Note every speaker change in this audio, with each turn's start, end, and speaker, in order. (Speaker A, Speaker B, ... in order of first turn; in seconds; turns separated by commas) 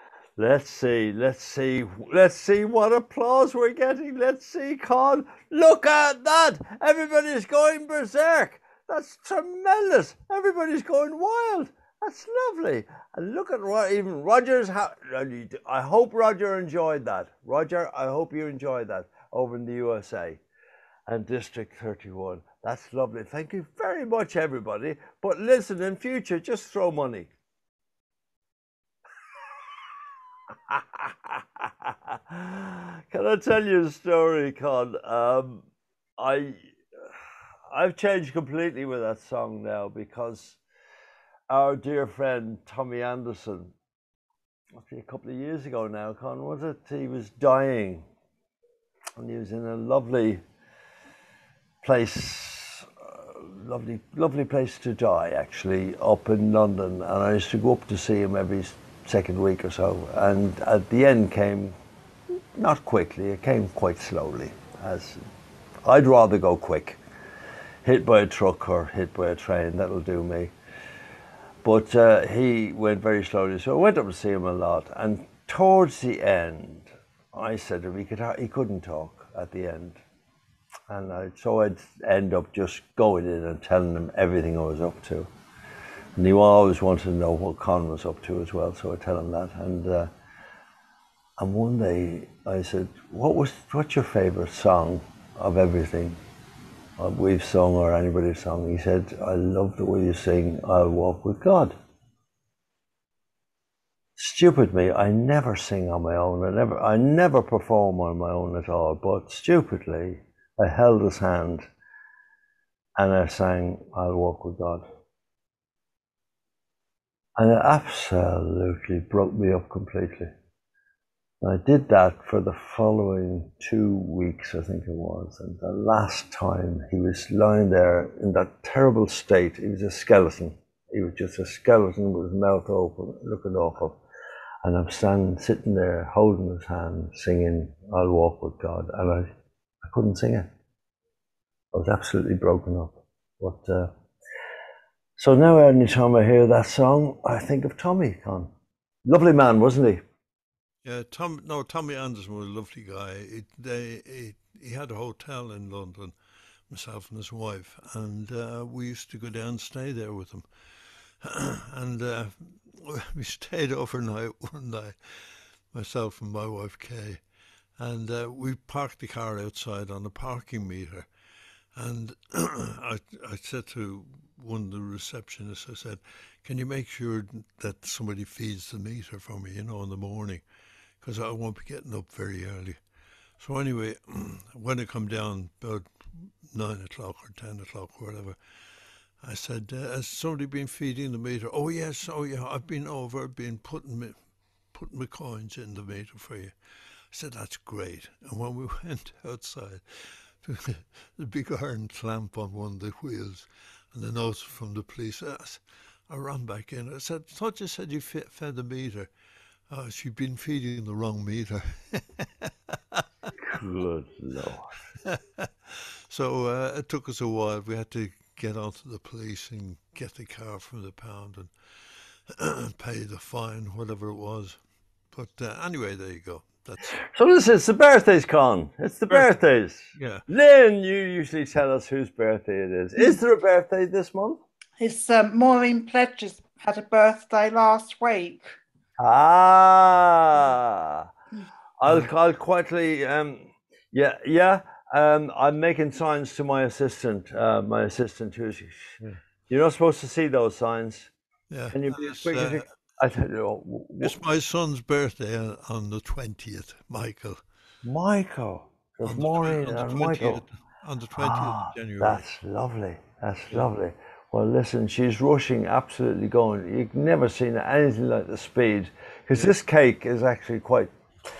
Speaker A: 0.4-20.4, Speaker A: 21.1-27.3, Speaker A: 30.7-35.6, Speaker A: 36.2-36.7, Speaker A: 37.7-40.6, Speaker A: 41.5-43.7, Speaker A: 44.8-48.0, Speaker A: 49.2-50.4, Speaker A: 51.8-61.8, Speaker A: 62.6-65.2, Speaker A: 65.8-67.0, Speaker A: 67.8-70.5, Speaker A: 71.6-80.0, Speaker A: 80.9-85.3, Speaker A: 86.2-90.1, Speaker A: 91.4-96.2, Speaker A: 97.0-101.8, Speaker A: 104.2-111.7, Speaker A: 113.0-114.9, Speaker A: 117.4-120.3, Speaker A: 121.4-134.0, Speaker A: 134.6-139.3, Speaker A: 139.8-140.5, Speaker A: 141.7-143.9, Speaker A: 145.2-148.5, Speaker A: 149.1-150.0, Speaker B: 150.8-156.1, Speaker B: 156.7-160.5, Speaker B: 161.2-167.2, Speaker B: 167.8-171.1, Speaker B: 171.8-180.4, Speaker B: 181.0-182.8, Speaker B: 183.4-188.4, Speaker B: 189.2-194.2, Speaker B: 194.7-196.6, Speaker B: 197.1-209.1, Speaker B: 209.7-213.0, Speaker A: 213.4-214.7, Speaker B: 215.0-221.5, Speaker B: 222.3-224.6, Speaker B: 225.1-226.9, Speaker A: 227.1-234.4, Speaker B: 229.9-230.2, Speaker C: 234.8-238.5, Speaker A: 239.0-241.1, Speaker A: 241.8-249.0, Speaker A: 249.5-251.1, Speaker B: 251.5-252.7, Speaker A: 251.7-254.2, Speaker B: 254.0-257.4, Speaker A: 257.8-260.4, Speaker B: 259.0-262.2, Speaker A: 261.2-270.9